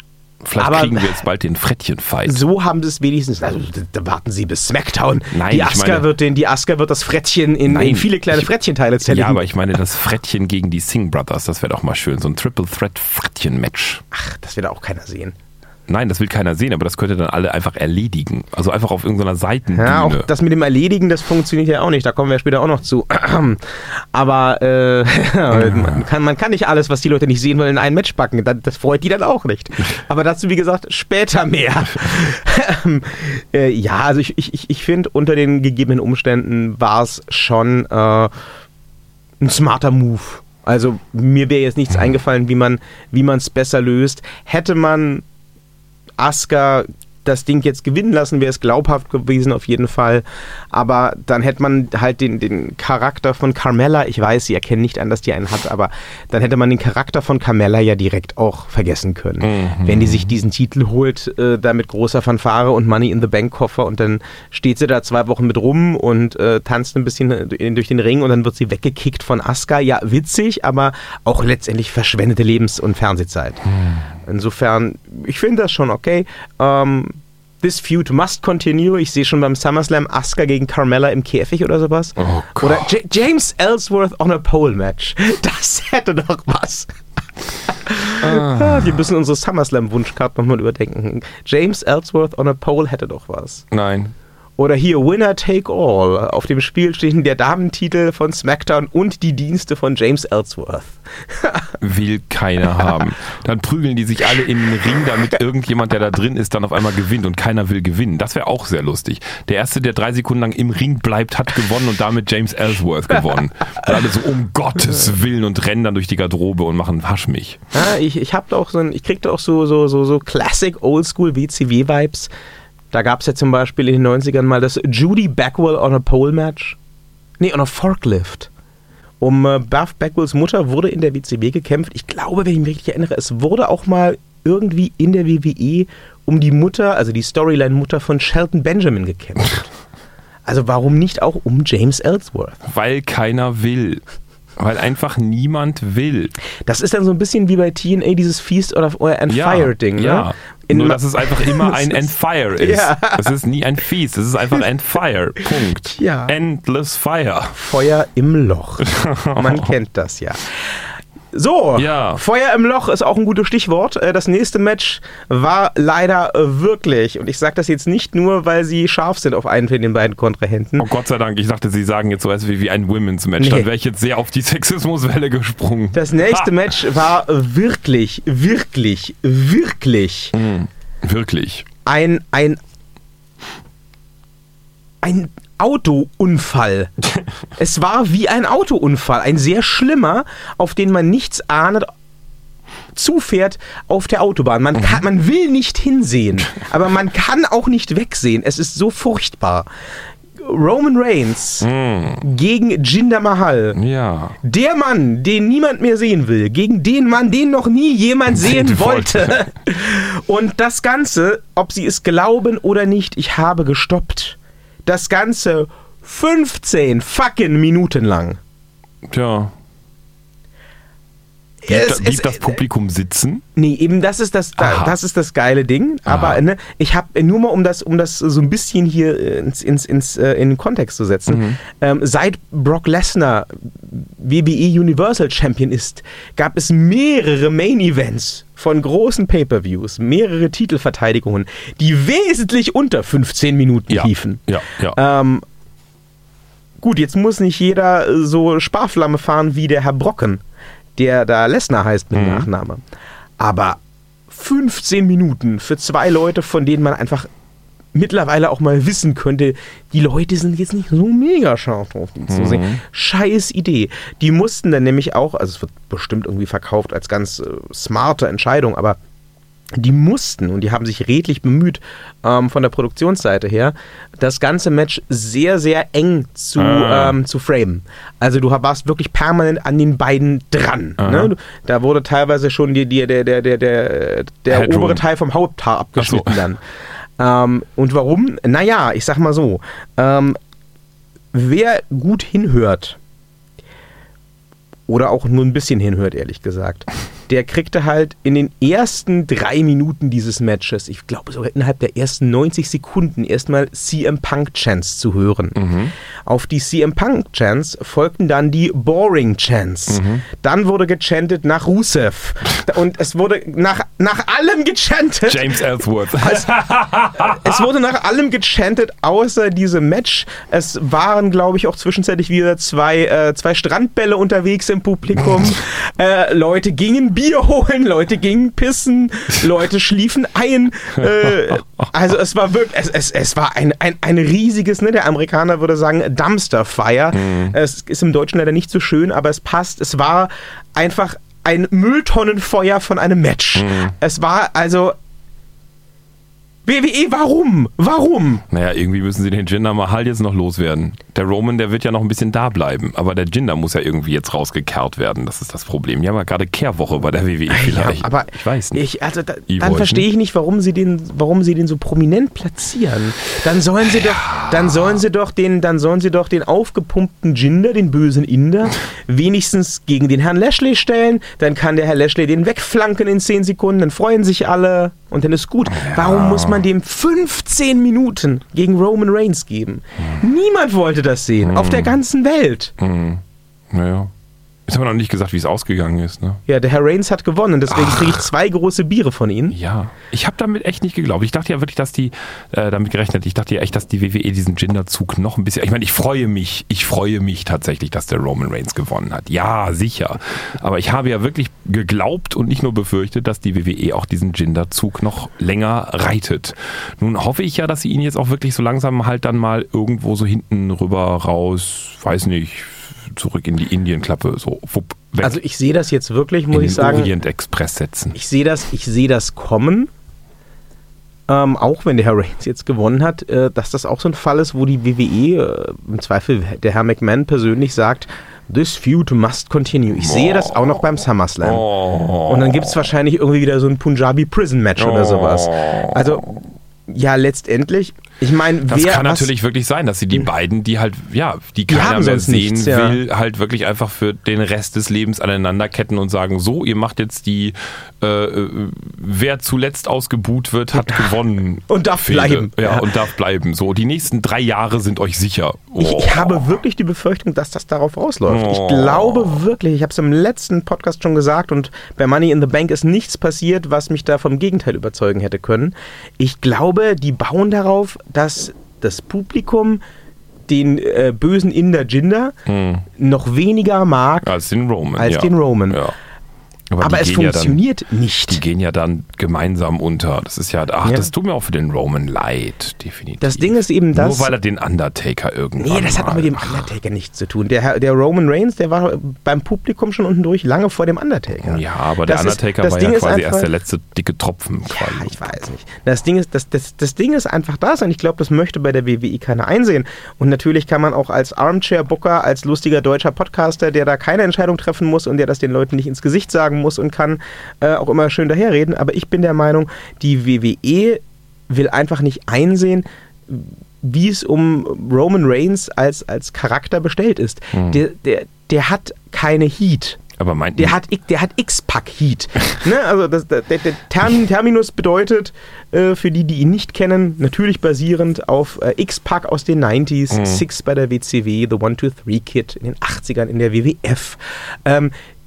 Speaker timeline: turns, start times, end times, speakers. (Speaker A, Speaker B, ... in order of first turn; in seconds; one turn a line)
Speaker A: 0.4-2.4
Speaker B: 0.6-1.2
Speaker B: 2.2-9.4
Speaker A: 5.3-6.1
Speaker A: 7.7-8.5
Speaker A: 9.1-14.0
Speaker B: 14.1-15.3
Speaker A: 15.9-20.3
Speaker B: 19.7-38.3
Speaker A: 25.5-26.0
Speaker B: 39.4-45.2
Speaker B: 46.2-73.6
Speaker A: 59.4-60.3
Speaker A: 73.7-74.1
Speaker B: 74.2-86.9
Speaker A: 82.2-82.9
Speaker B: 87.6-93.6
Speaker A: 88.2-89.0
Speaker A: 93.7-94.1
Speaker B: 94.6-101.8
Speaker A: 101.8-117.6
Speaker B: 117.7-122.3
Speaker B: 122.9-126.8
Speaker B: 127.4-128.5
Speaker B: 129.2-139.7
Speaker B: 140.4-142.6
Speaker A: 142.6-144.0
Speaker A: 144.6-146.3
Speaker B: 146.7-153.3
Speaker A: 149.3-157.6
Speaker B: 155.9-156.3
Speaker B: 157.5-170.9
Speaker A: 158.8-159.7
Speaker A: 161.8-162.2
Speaker A: 170.8-176.5
Speaker B: 173.4-173.7
Speaker B: 175.9-180.3
Speaker A: 180.3-181.7
Speaker B: 181.8-182.6
Speaker B: 185.0-186.9
Speaker B: 187.6-191.9
Speaker B: 192.9-199.7
Speaker B: 200.4-201.7
Speaker A: 201.6-202.2
Speaker B: 202.2-203.8
Speaker A: 203.8-204.4
Speaker B: 204.4-218.4
Speaker A: 208.3-209.4
Speaker A: 219.1-219.5
Speaker B: 221.6-222.6
Speaker A: 221.7-223.4
Speaker B: 223.6-245.4
Speaker A: 224.6-224.9
Speaker A: 226.1-226.4
Speaker A: 231.3-231.6
Speaker A: 243.9-245.0
Speaker B: 246.8-250.4
Speaker B: 251.0-252.8
Speaker A: 252.1-252.5
Speaker B: 253.4-257.3
Speaker B: 257.9-269.0
Speaker A: 262.3-262.8
Speaker B: 269.8-286.6
Speaker A: 276.6-277.2
Speaker A: 281.0-281.3
Speaker A: 284.5-285.0
Speaker A: 286.0-286.4
Speaker B: 287.2-290.4
Speaker B: 291.3-293.0
Speaker B: 294.9-305.7
Speaker A: 305.6-305.9
Speaker B: 306.2-316.6
Speaker A: 309.9-310.2
Speaker A: 315.2-317.5
Speaker B: 317.1-344.9
Speaker A: 337.1-337.5
Speaker A: 343.6-343.9
Speaker B: 346.6-348.4
Speaker A: 348.5-358.8
Speaker B: 357.5-382.7
Speaker A: 359.5-360.1
Speaker A: 363.9-364.9
Speaker A: 375.7-376.6
Speaker A: 381.4-381.9
Speaker A: 382.8-384.1
Speaker A: 384.7-386.4
Speaker B: 386.5-389.6
Speaker A: 387.8-388.1
Speaker A: 389.5-415.4
Speaker B: 415.2-417.1
Speaker A: 416.5-418.2
Speaker B: 418.1-419.9
Speaker B: 421.3-431.7
Speaker A: 430.0-430.8
Speaker A: 431.4-432.8
Speaker B: 432.2-439.3
Speaker A: 434.8-436.2
Speaker A: 438.7-456.5
Speaker B: 441.7-443.0
Speaker B: 450.8-451.1
Speaker B: 451.7-452.9
Speaker B: 455.8-469.8
Speaker A: 458.3-459.4
Speaker B: 470.5-472.3
Speaker A: 472.4-472.9
Speaker B: 472.9-474.3
Speaker A: 474.2-475.9
Speaker B: 474.9-475.8
Speaker A: 476.7-477.6
Speaker B: 476.8-478.4
Speaker A: 478.3-486.7
Speaker B: 483.2-484.3
Speaker B: 485.6-493.5
Speaker A: 491.4-495.3
Speaker B: 494.6-520.0
Speaker A: 517.5-517.8
Speaker A: 520.2-520.8
Speaker B: 520.5-534.9
Speaker A: 530.1-530.4